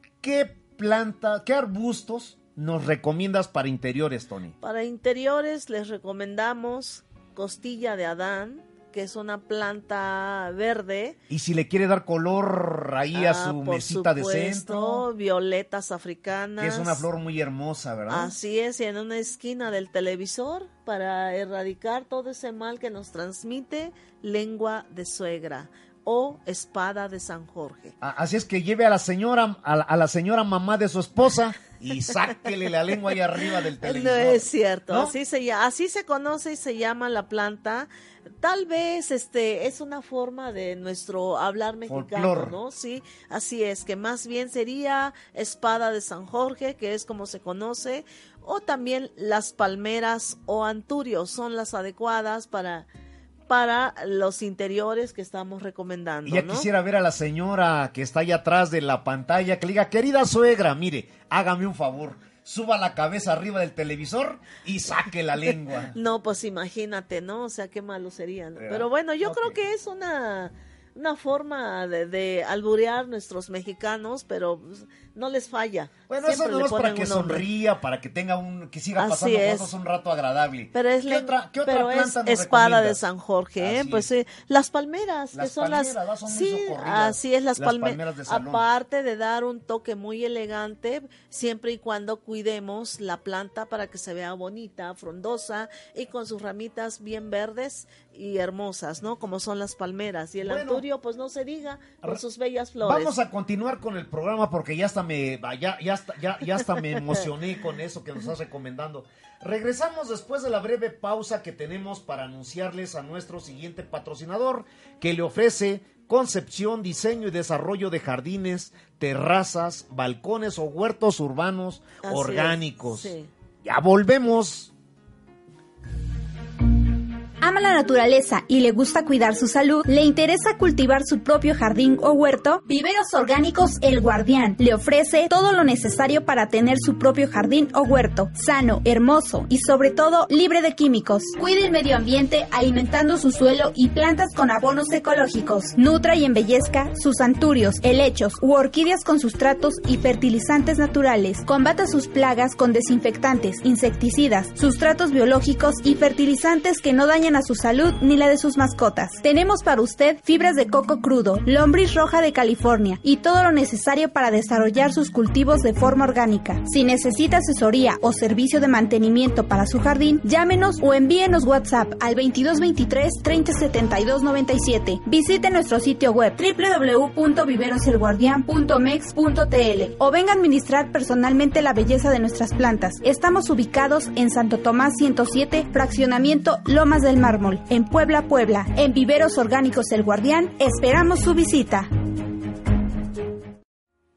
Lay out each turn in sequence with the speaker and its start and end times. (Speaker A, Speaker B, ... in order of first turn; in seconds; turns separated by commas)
Speaker A: 0.2-4.5, Speaker B: 4.6-11.2, Speaker A: 11.3-15.1, Speaker B: 13.1-17.1, Speaker A: 16.6-18.3, Speaker B: 18.1-27.9, Speaker A: 28.0-35.1, Speaker B: 33.5-37.9, Speaker B: 38.4-52.9, Speaker A: 41.9-42.6, Speaker B: 53.5-56.7, Speaker A: 56.2-66.0, Speaker B: 65.9-77.5, Speaker A: 68.6-69.6, Speaker A: 76.1-83.0, Speaker B: 79.0-79.7, Speaker B: 80.7-103.2, Speaker A: 83.6-84.1, Speaker A: 85.3-88.6, Speaker A: 100.4-100.8, Speaker A: 102.8-124.7, Speaker B: 122.0-123.3, Speaker C: 127.4-191.9